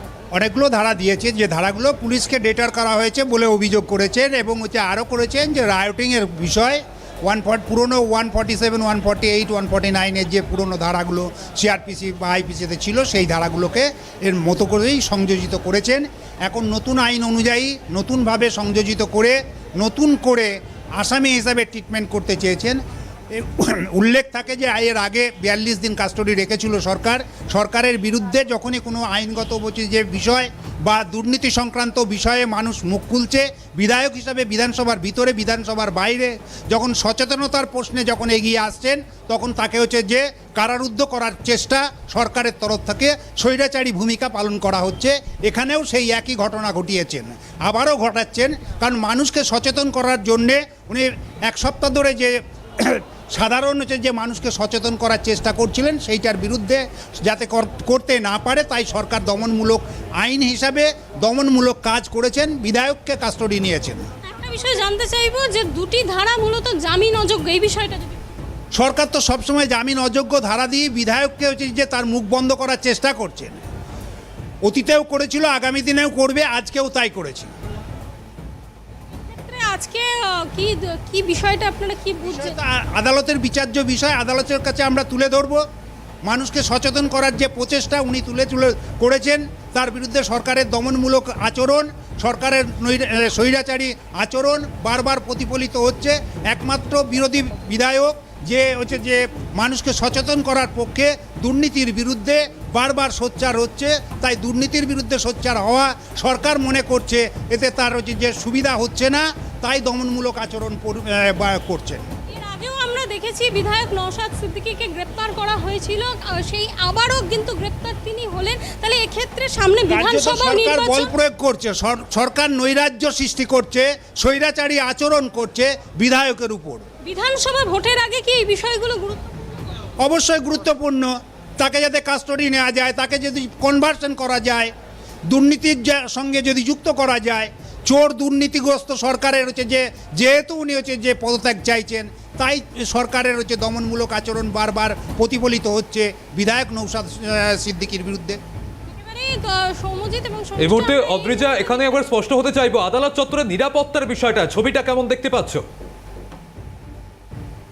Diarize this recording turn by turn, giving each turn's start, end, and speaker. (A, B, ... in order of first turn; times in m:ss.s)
0:00.3-0:22.8 A
0:23.3-1:04.1 A
1:04.2-1:08.2 B
1:08.7-1:13.6 A
1:14.6-1:17.5 A
1:19.2-1:22.6 B
1:22.2-1:25.6 A
1:26.2-1:52.0 A
1:52.3-2:01.1 B
1:59.9-2:06.8 A
2:07.0-2:09.2 B
2:10.0-2:14.7 A
2:15.3-2:28.4 A
2:28.8-2:31.9 B
2:30.6-2:35.6 C